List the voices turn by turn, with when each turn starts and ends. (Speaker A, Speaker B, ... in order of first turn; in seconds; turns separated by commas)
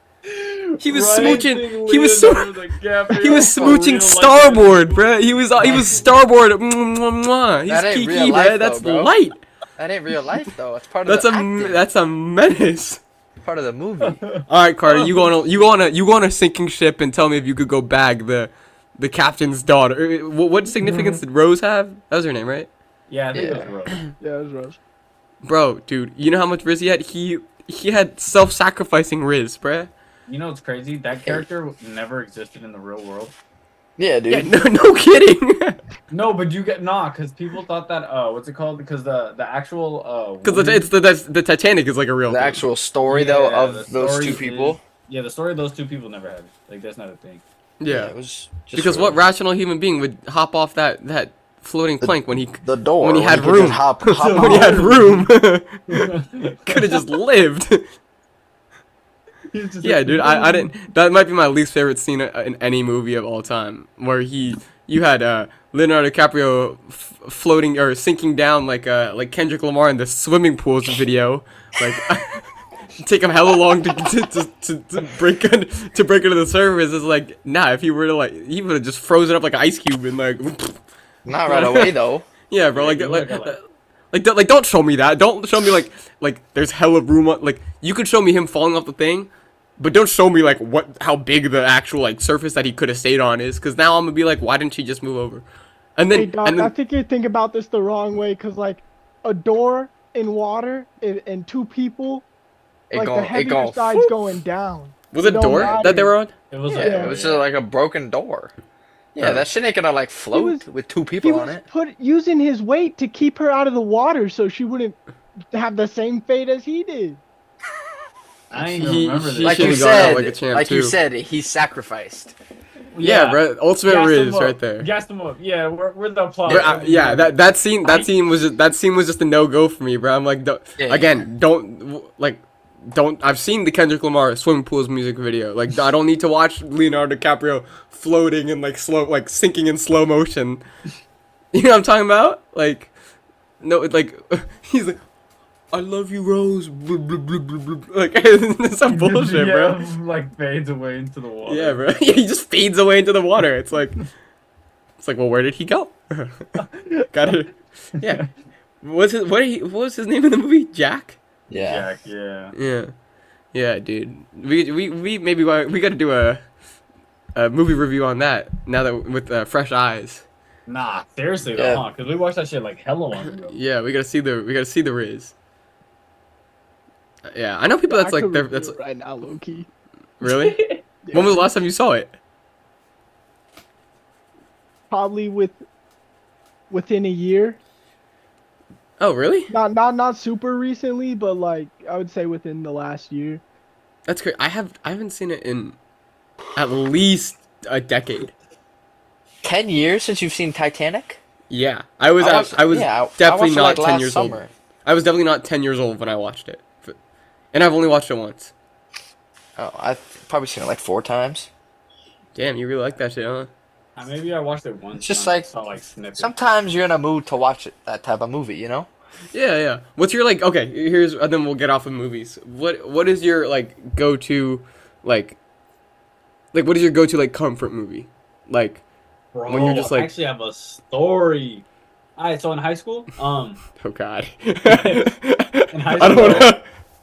Speaker A: 0.3-6.1, Speaker B: 0.8-2.5, Speaker B: 3.2-9.4, Speaker C: 7.7-9.1, Speaker C: 9.8-11.9, Speaker B: 11.1-13.0, Speaker C: 13.4-14.2, Speaker A: 14.0-15.3, Speaker B: 14.5-22.7, Speaker A: 20.8-21.2, Speaker A: 23.1-24.0, Speaker C: 23.3-23.8, Speaker D: 24.2-24.8, Speaker B: 25.4-29.9, Speaker A: 30.3-33.4, Speaker C: 34.0-34.5, Speaker B: 34.3-35.8, Speaker A: 36.1-40.9, Speaker B: 40.4-42.6, Speaker C: 42.3-44.8, Speaker A: 43.0-47.4, Speaker B: 47.8-48.1, Speaker C: 47.9-49.2, Speaker B: 48.7-56.0, Speaker C: 52.0-55.0, Speaker A: 54.1-55.3, Speaker A: 55.9-57.0, Speaker B: 56.7-57.9, Speaker A: 59.5-60.7, Speaker B: 59.8-72.5, Speaker B: 73.0-80.8, Speaker C: 81.2-82.3, Speaker B: 81.5-81.9, Speaker B: 82.5-83.6, Speaker A: 82.7-83.6, Speaker B: 84.1-95.4, Speaker B: 96.0-96.7, Speaker D: 96.1-102.3, Speaker C: 102.9-104.1, Speaker D: 102.9-106.1, Speaker B: 105.1-106.3, Speaker A: 106.5-107.5, Speaker D: 106.7-107.1, Speaker C: 106.7-108.5, Speaker C: 109.2-111.7, Speaker B: 109.2-109.5, Speaker D: 110.3-110.7, Speaker D: 111.2-115.0, Speaker D: 115.5-117.2, Speaker A: 118.5-120.2, Speaker B: 118.5-121.0, Speaker C: 119.4-122.3, Speaker A: 122.9-128.1, Speaker B: 123.0-124.9, Speaker B: 126.5-140.6, Speaker C: 130.8-131.3, Speaker B: 141.5-142.9, Speaker B: 143.6-145.0, Speaker B: 145.7-149.8, Speaker A: 148.9-151.9, Speaker B: 151.5-154.0, Speaker B: 155.0-156.6, Speaker A: 156.6-157.3, Speaker B: 157.1-158.2, Speaker A: 158.0-158.3, Speaker B: 158.8-161.2, Speaker C: 161.5-161.9, Speaker A: 161.6-162.6, Speaker B: 162.5-162.9, Speaker B: 163.5-166.4, Speaker B: 167.3-170.2, Speaker A: 170.7-173.6, Speaker C: 171.6-171.8, Speaker B: 173.5-175.3, Speaker B: 177.3-178.8, Speaker D: 177.9-179.7, Speaker B: 180.2-182.2, Speaker A: 180.2-180.8, Speaker D: 181.0-181.5, Speaker D: 184.9-185.6, Speaker D: 186.7-187.6, Speaker B: 189.0-189.5, Speaker D: 189.5-193.4, Speaker B: 194.1-195.8, Speaker B: 196.6-198.3, Speaker C: 199.4-201.2, Speaker B: 201.5-207.0, Speaker C: 202.2-204.5, Speaker B: 207.5-208.5, Speaker C: 209.6-211.5, Speaker B: 212.3-213.5, Speaker A: 214.0-216.3, Speaker C: 215.0-215.5, Speaker C: 216.2-218.9, Speaker B: 219.3-225.4, Speaker B: 226.5-228.8, Speaker A: 229.3-231.7, Speaker B: 229.5-230.1, Speaker A: 232.2-233.6, Speaker B: 233.8-236.6, Speaker A: 234.7-235.1, Speaker A: 235.7-236.6